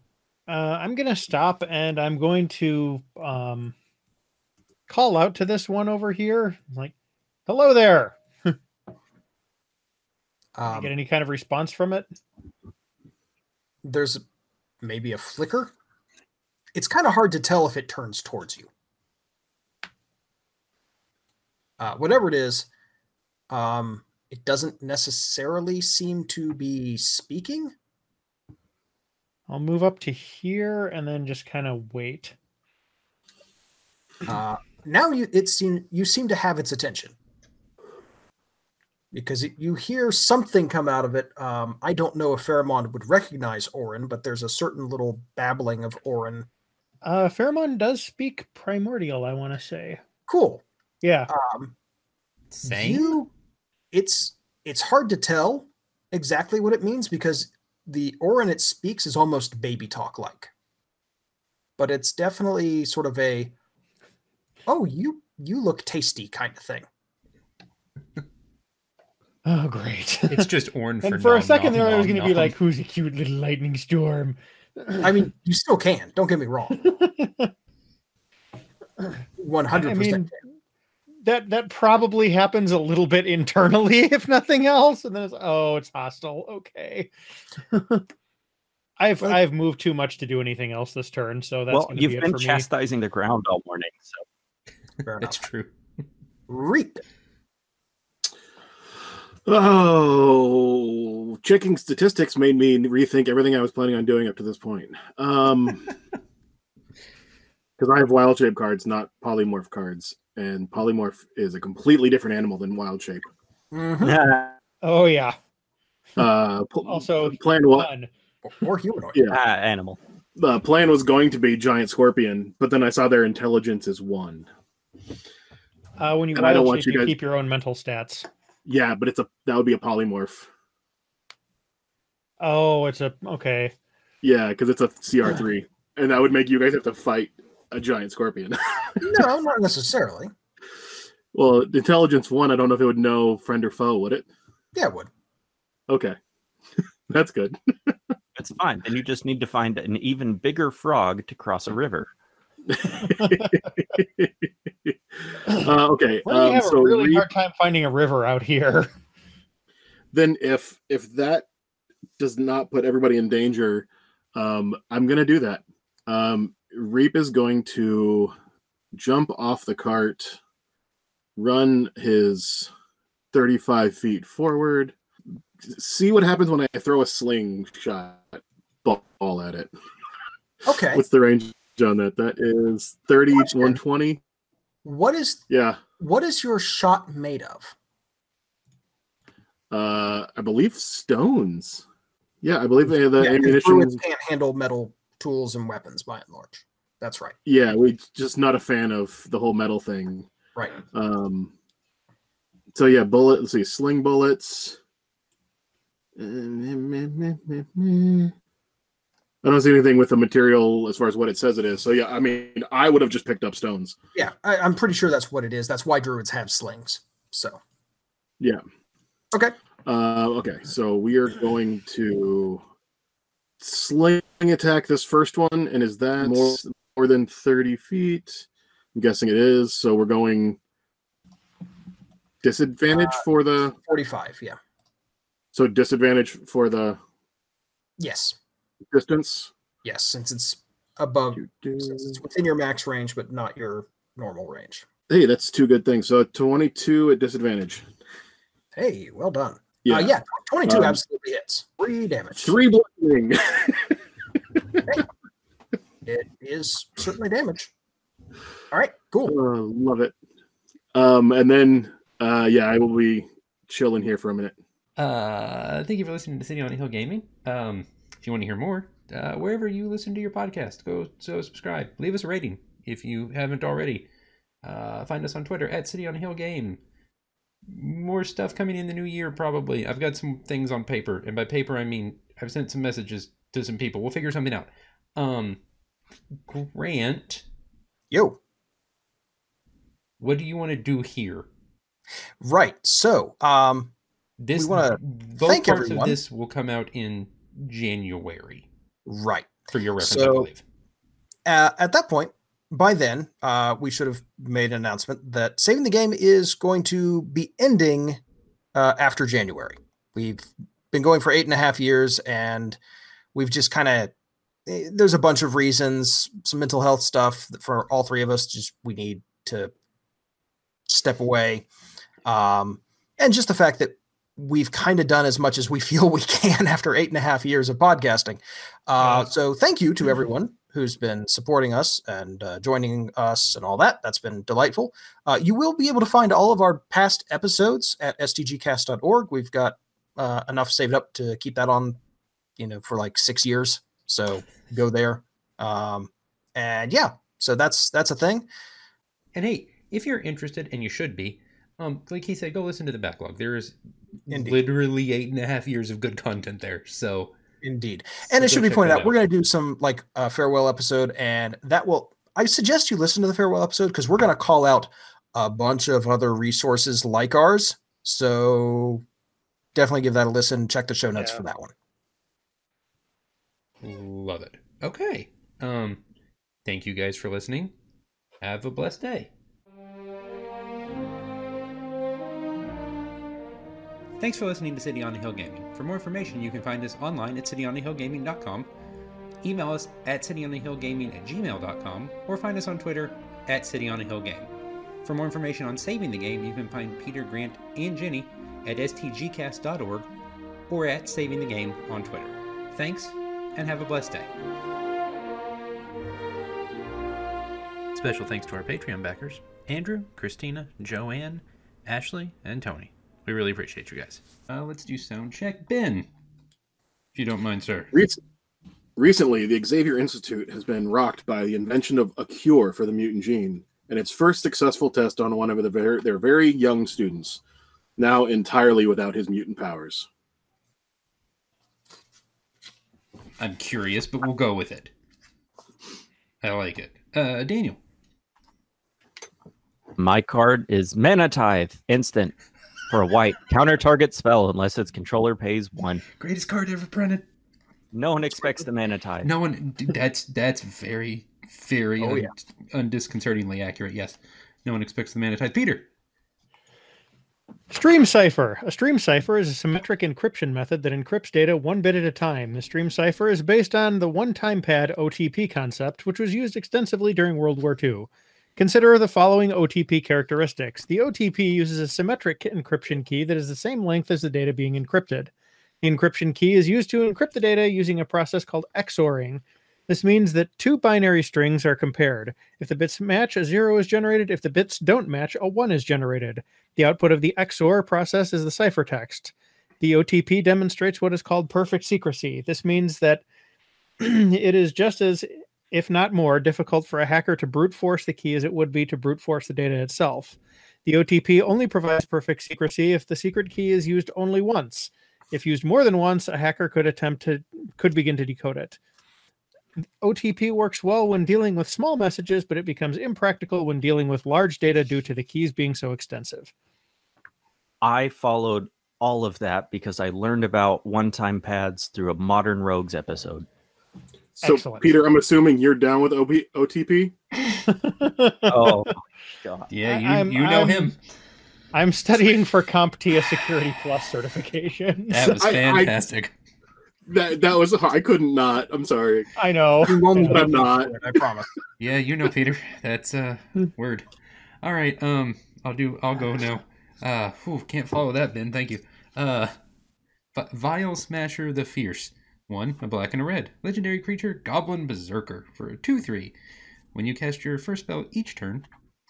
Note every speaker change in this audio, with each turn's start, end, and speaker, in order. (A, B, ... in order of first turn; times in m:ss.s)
0:00.5-0:03.7 A
0:04.9-0:06.9 A
0:07.5-0:08.5 A
0:10.6-0:10.9 B
0:10.7-0:12.1 A
0:13.8-0:14.2 B
0:14.8-0:15.7 B
0:16.7-0:18.7 B
0:21.8-0:22.7 B
0:23.5-0:27.7 B
0:29.5-0:32.3 A
0:34.2-0:37.2 B
0:39.1-0:46.5 B
0:47.0-0:50.0 A
0:50.3-0:50.6 B
0:51.0-0:51.3 A
0:51.3-0:51.7 B
0:52.5-0:53.2 C
0:52.6-0:53.3 B
0:53.9-1:00.5 B
1:01.8-1:03.5 B
1:04.7-1:06.9 B
1:09.4-1:10.5 A
1:10.3-1:12.5 C
1:11.0-1:15.2 A
1:15.0-1:16.9 B
1:16.8-1:17.5 A
1:19.4-1:20.3 B
1:19.7-1:20.3 A
1:21.2-1:27.1 A
1:27.7-1:28.0 A
1:29.0-1:32.7 A
1:31.7-1:34.2 D
1:35.0-1:35.4 B
1:35.2-1:35.7 C
1:36.5-1:37.0 B
1:39.4-1:45.9 E
1:47.8-1:53.3 E
1:53.7-1:54.2 B
1:54.0-1:54.6 D
1:54.8-1:55.4 A
1:56.2-1:57.9 E
1:56.8-1:58.1 A
1:58.4-1:59.2 B
1:59.3-2:00.0 D
2:00.4-2:04.5 E
2:06.0-2:08.3 A
2:06.3-2:07.1 E
2:08.6-2:10.5 E
2:12.4-2:13.7 A
2:14.2-2:19.2 E
2:19.0-2:20.3 B
2:21.3-2:24.2 E
2:24.7-2:25.1 B
2:25.9-2:26.2 E
2:27.1-2:27.9 E
2:28.4-2:32.1 D
2:32.7-2:37.2 E
2:36.2-2:38.9 A
2:40.1-2:41.4 E
2:42.2-2:48.3 E
2:48.9-2:50.4 E
2:51.4-2:52.7 E
2:53.3-2:54.9 E
2:55.6-2:59.7 E
3:00.6-3:01.0 B
3:00.9-3:04.2 E
3:03.4-3:03.8 B
3:04.8-3:05.4 B
3:05.5-3:05.8 E
3:06.0-3:07.7 B
3:09.7-3:11.8 E
3:12.4-3:14.0 E
3:13.2-3:17.4 B
3:17.4-3:20.3 E
3:20.9-3:21.5 E
3:22.7-3:24.8 E
3:26.2-3:28.3 E
3:29.4-3:33.9 E
3:34.1-3:37.6 B
3:39.8-3:42.6 E
3:43.6-3:50.6 E
3:52.4-3:53.7 E
3:52.9-3:53.2 B
3:53.8-3:54.6 B
3:55.5-3:57.0 E
3:58.0-3:58.4 B
3:58.9-3:59.5 E
3:59.8-4:04.9 B
4:01.4-4:02.2 E
4:05.1-4:07.8 E
4:08.7-4:12.6 B
4:09.8-4:11.0 E
4:12.4-4:14.0 E
4:14.5-4:14.9 E
4:16.0-4:17.7 B
4:18.7-4:19.4 B
4:19.2-4:20.1 E
4:20.9-4:24.6 E
4:25.0-4:34.1 C
4:34.6-4:36.8 C
4:37.7-4:45.6 C
4:46.5-4:47.4 C
4:48.1-4:48.4 B
4:50.2-4:51.5 C
4:52.4-4:53.9 B
4:54.4-4:58.6 C
4:54.6-4:56.2 B
4:59.0-5:00.5 B
4:59.7-5:00.6 C
5:01.4-5:08.2 B
5:08.7-5:12.8 B
5:13.3-5:14.1 B
5:14.6-5:19.7 B
5:20.9-5:21.7 B
5:22.2-5:42.0 B
5:42.6-5:48.5 B
5:49.3-5:57.3 C
5:54.3-5:54.6 B
5:57.6-6:09.0 B
5:58.3-5:59.2 C
6:09.7-6:11.7 B
6:11.2-6:11.4 A
6:13.8-6:16.0 C
6:16.6-6:17.7 C
6:18.4-6:19.3 C
6:24.2-6:28.7 C
6:29.4-6:34.5 C
6:35.0-6:40.1 C
6:40.7-6:44.3 C
6:47.9-6:56.1 C
6:57.1-6:57.9 C
6:57.9-6:58.2 E
6:59.0-7:07.4 E
7:08.0-7:10.1 E
7:13.4-7:14.9 C
7:16.4-7:17.8 C
7:20.0-7:22.3 D
7:22.9-7:26.0 D
7:26.1-7:27.2 C
7:27.9-7:29.3 D
7:29.2-7:35.8 C
7:32.0-7:32.3 B
7:37.7-7:55.3 A
7:55.8-8:13.2 A
8:14.0-8:28.8 A
8:30.0-8:36.5 A
8:37.8-8:43.5 D
8:44.3-8:47.1 E
8:44.4-8:45.0 A
8:47.7-8:48.9 A
8:48.5-8:49.7 D
8:49.7-8:51.0 C
8:49.8-8:50.9 A
8:51.7-8:55.4 A
8:55.1-8:56.3 C
8:55.3-8:56.0 E
8:57.1-8:59.3 E
8:59.4-9:00.5 A
8:59.8-9:01.5 B
8:59.9-9:01.0 E
9:01.8-9:04.1 C
9:04.6-9:09.5 C
9:10.3-9:16.3 C
9:16.9-9:18.7 C